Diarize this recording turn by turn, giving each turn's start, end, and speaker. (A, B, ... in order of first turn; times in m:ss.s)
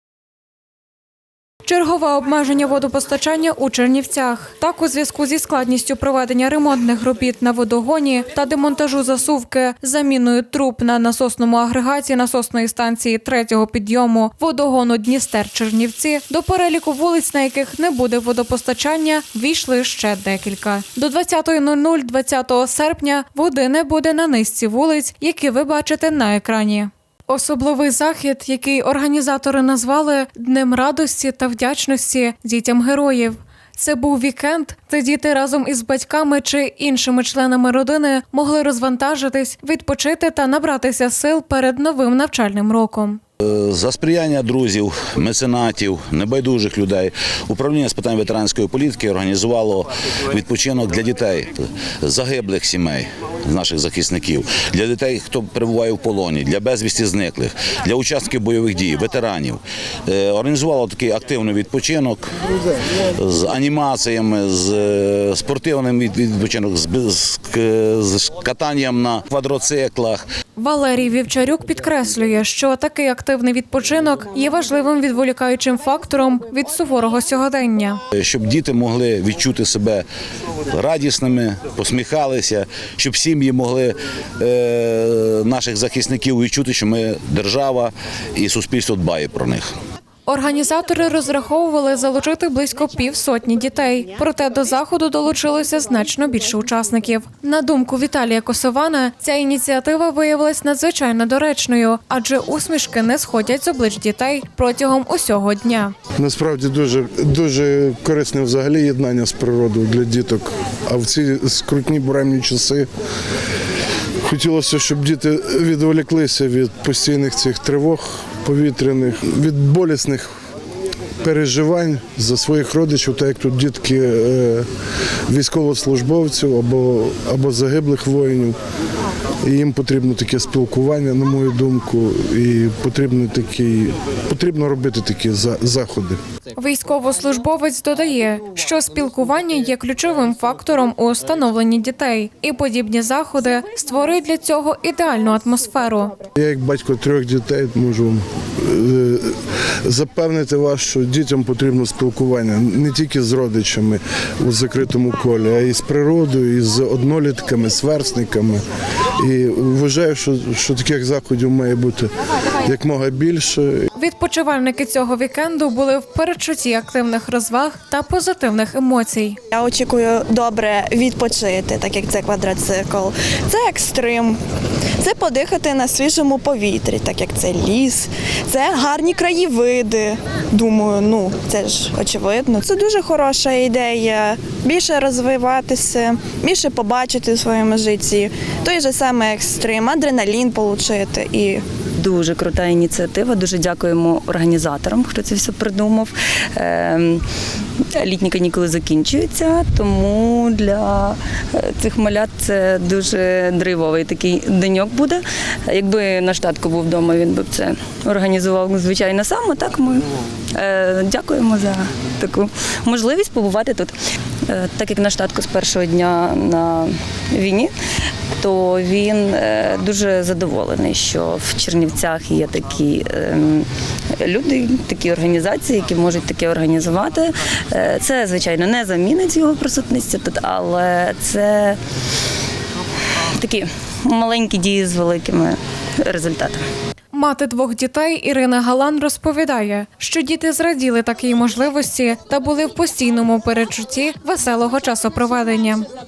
0:01.6-0:43.2 A
0:43.8-0:44.8 B
0:45.5-0:47.1 B
0:47.6-0:49.7 B
0:50.3-0:51.4 B
0:52.1-0:53.0 B
0:53.5-0:58.6 B
0:59.1-0:59.6 B
1:00.2-1:02.2 B
1:03.3-1:04.8 B
1:05.3-1:06.8 B
1:07.5-1:10.2 B
1:10.6-1:18.0 A
1:18.4-1:20.0 B
1:20.8-1:23.9 B
1:24.4-1:24.9 B
1:25.4-1:27.8 B
1:28.5-1:29.6 B
1:30.3-1:45.9 A
1:46.2-1:52.9 C
1:54.3-2:00.3 C
2:01.2-2:04.7 C
2:05.3-2:08.6 C
2:09.4-2:16.2 C
2:16.6-2:26.1 A
2:26.4-2:38.6 C
2:39.2-2:42.1 C
2:42.6-2:43.9 C
2:44.0-2:49.4 A
2:49.5-2:54.4 D
2:55.0-3:11.6 D
3:12.0-3:17.2 E
3:18.0-3:30.0 E
3:30.6-3:33.9 E
3:34.5-3:37.7 E
3:38.4-3:43.7 E
3:44.2-3:51.8 E
3:53.4-3:56.6 E
3:57.1-4:05.9 A